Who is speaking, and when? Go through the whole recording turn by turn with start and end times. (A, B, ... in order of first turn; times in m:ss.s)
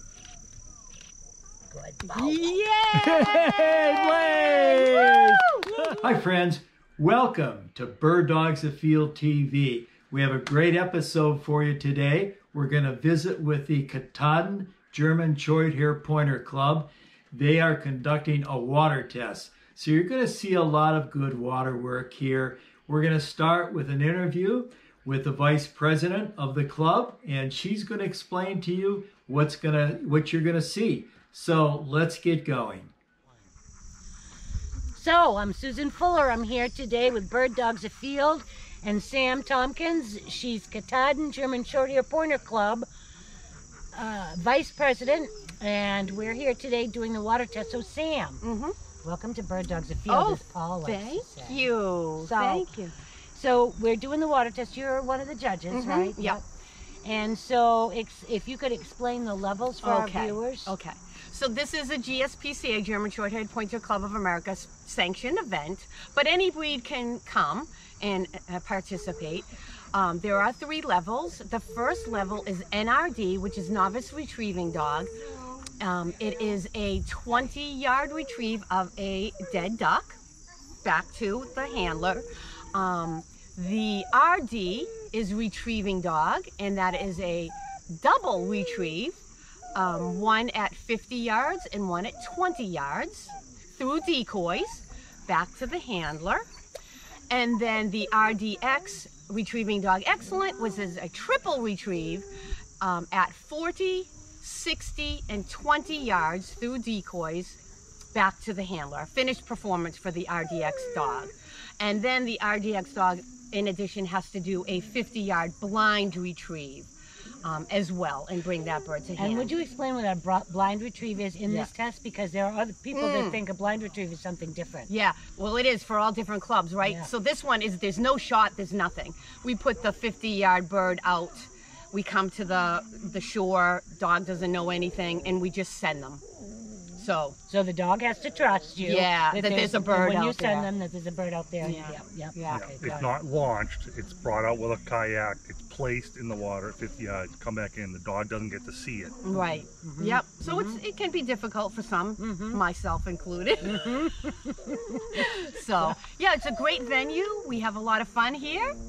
0:01.7-0:02.5 A
0:02.0-0:06.2 B
0:03.0-0:32.9 C
0:34.9-0:42.9 A
0:43.9-0:48.4 A
0:48.4-0:48.8 B
0:49.0-0:51.6 A
0:50.1-0:52.9 B
0:52.2-0:52.6 A
0:53.3-0:56.4 A
0:55.7-0:56.4 B
0:57.0-1:00.7 A
0:59.8-1:15.1 B
1:15.8-1:20.2 B
1:20.8-1:29.2 B
1:29.7-1:36.4 B
1:37.3-1:42.3 B
1:42.8-1:47.6 B
1:48.1-1:56.9 B
1:57.4-1:59.5 B
1:59.2-2:04.9 A
2:02.9-2:03.4 B
2:04.9-2:16.2 B
2:06.8-2:07.1 A
2:17.0-2:17.4 B
2:17.5-2:23.2 A
2:18.8-2:20.7 B
2:21.6-2:22.7 B
2:22.5-2:29.2 D
2:29.2-2:33.9 B
2:29.3-2:30.8 A
2:32.2-2:32.6 A
2:33.6-2:35.2 A
2:35.2-2:38.8 B